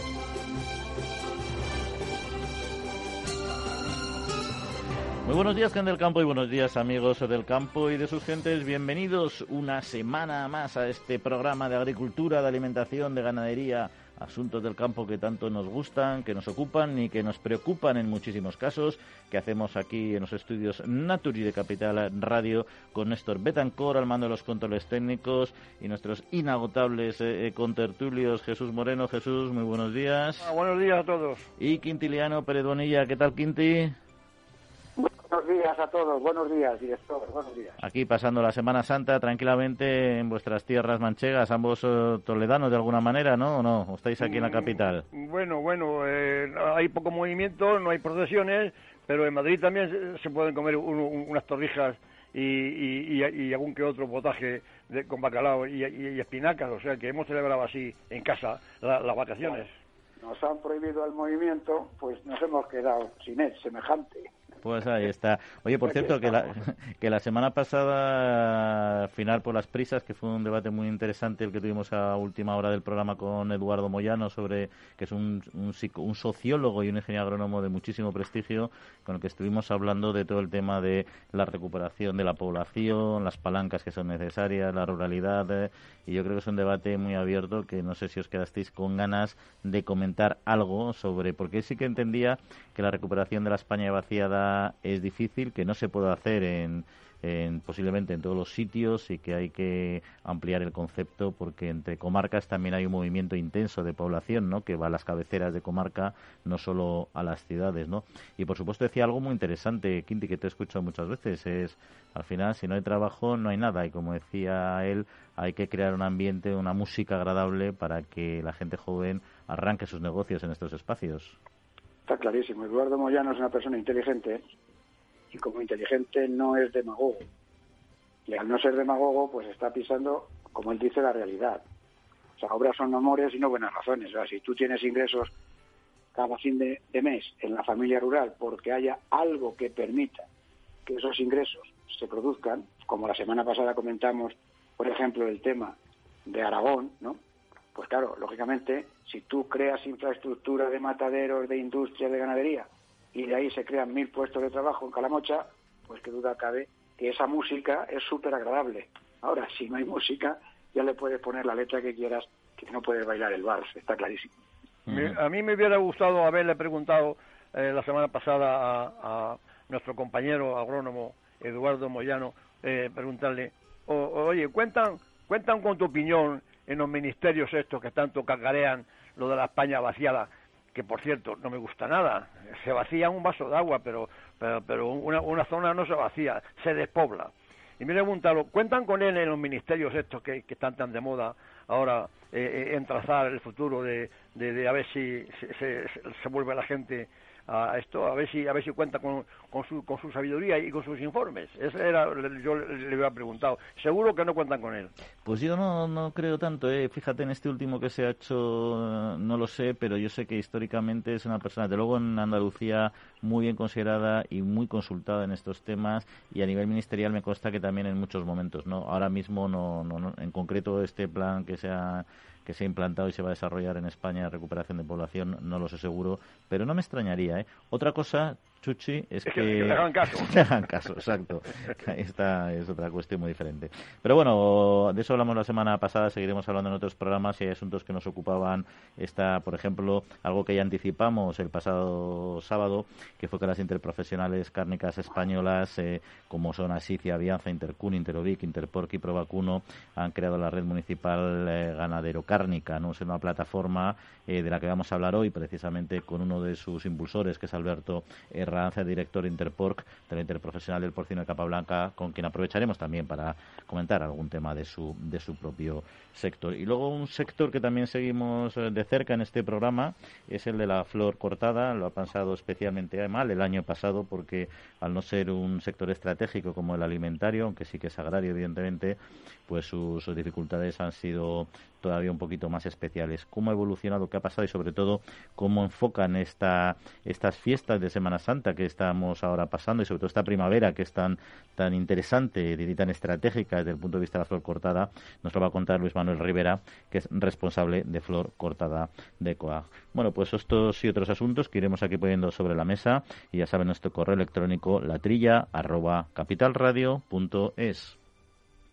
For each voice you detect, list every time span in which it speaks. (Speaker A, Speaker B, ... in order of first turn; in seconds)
Speaker A: 5.2-30.5, 31.6-34.0, 37.8-45.0, 64.6-121.4, 164.9-165.2, 205.2-308.0
Speaker B: 30.4-31.5, 44.2-59.7, 164.9-204.9, 229.3-230.3
Speaker C: 35.0-37.8, 60.2-64.3, 65.9-66.2, 122.1-124.4, 125.3-127.3, 128.3-131.6, 132.4-135.3, 136.2-140.3, 140.9-147.2, 147.8-164.3